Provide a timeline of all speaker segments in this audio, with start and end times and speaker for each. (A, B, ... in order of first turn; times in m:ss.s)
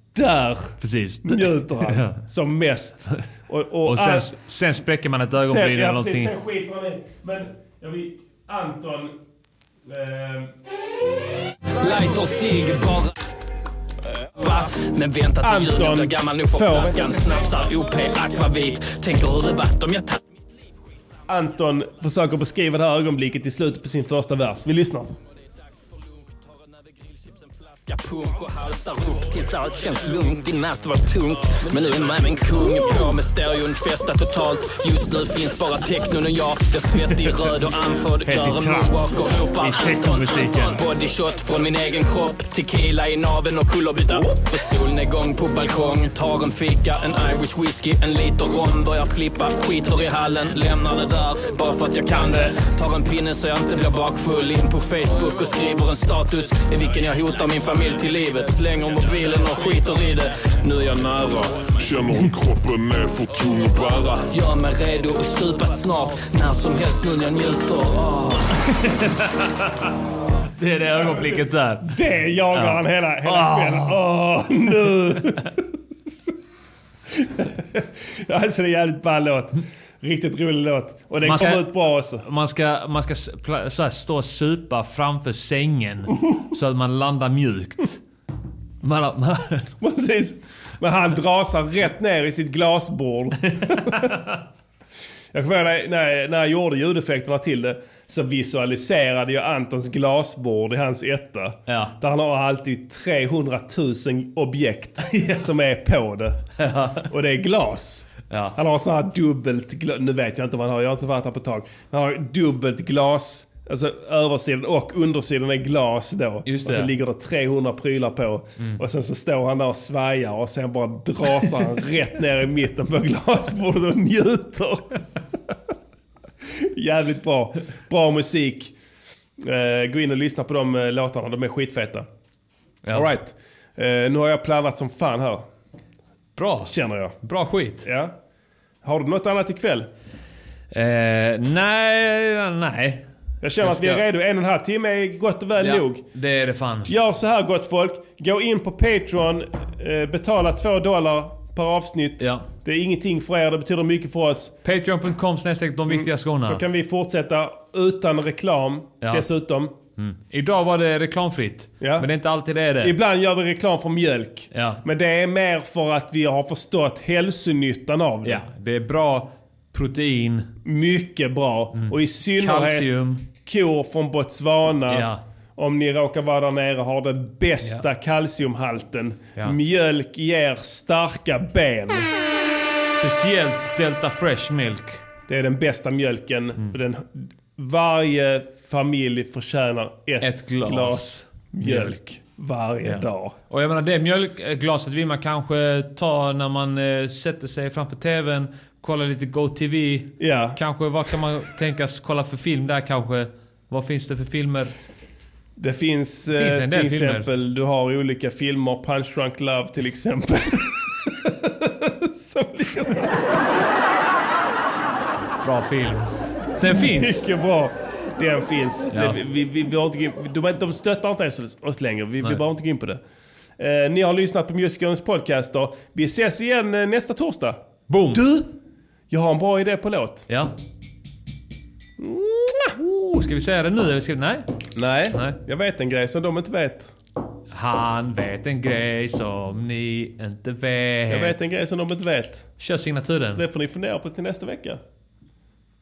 0:00.1-0:04.3 A
0:00.8-0:02.2 B
0:03.8-0:06.3 B
0:05.4-0:09.1 A
0:09.9-0:10.5 A
0:11.8-0:13.1 C
0:14.4-0:20.2 C
0:15.4-0:17.3 A
0:21.3-0:25.1 A
0:25.9-1:00.9 C
0:38.2-0:40.8 B
1:00.9-1:04.3 D
1:04.3-1:08.5 C
1:08.7-1:09.9 B
1:10.5-1:12.0 B
1:11.0-1:15.6 A
1:12.5-1:14.0 B
1:17.1-1:22.2 A
1:21.2-1:28.0 B
1:28.8-1:29.7 B
1:29.8-1:34.0 A
1:33.6-1:34.0 B
1:35.3-1:46.4 A
1:41.7-1:41.9 B
1:45.1-1:45.4 B
1:46.6-1:47.1 B
1:47.0-2:05.0 A
1:48.3-1:48.6 B
1:56.4-1:56.9 B
2:06.6-2:08.7 A
2:09.4-2:12.1 A
2:12.9-2:15.4 A
2:16.4-2:17.9 B
2:16.7-2:17.2 A
2:17.8-2:18.1 A
2:18.8-2:19.9 A
2:20.7-2:23.1 B
2:23.4-2:26.0 A
2:23.6-2:24.0 B
2:25.6-2:26.9 B
2:26.9-2:34.5 A
2:32.2-2:32.4 B
2:34.6-2:36.6 B
2:35.9-2:39.7 A
2:39.0-2:39.3 B
2:40.0-2:42.9 B
2:41.8-2:42.1 A
2:42.8-2:48.4 A
2:44.5-2:44.8 B
2:48.2-2:50.5 B
2:50.6-3:02.1 A
2:51.7-2:53.2 B
2:54.9-2:55.2 B
3:02.9-3:05.0 B
3:05.3-3:13.3 A
3:10.2-3:12.2 B
3:12.8-3:24.7 B
3:20.2-3:20.6 A
3:25.6-3:33.2 A
3:26.3-3:27.3 B
3:35.4-3:37.2 B
3:36.7-3:43.0 A
3:38.9-3:39.2 B
3:43.6-3:47.6 A
3:47.9-3:48.3 B
3:48.1-3:48.5 A
3:49.1-3:50.3 A
3:52.0-3:52.7 A
3:52.7-3:54.5 B
3:54.7-3:56.9 A
3:55.1-3:55.4 B
3:57.5-4:01.4 B
4:01.1-4:02.5 A
4:02.6-4:03.4 B
4:03.3-4:04.8 A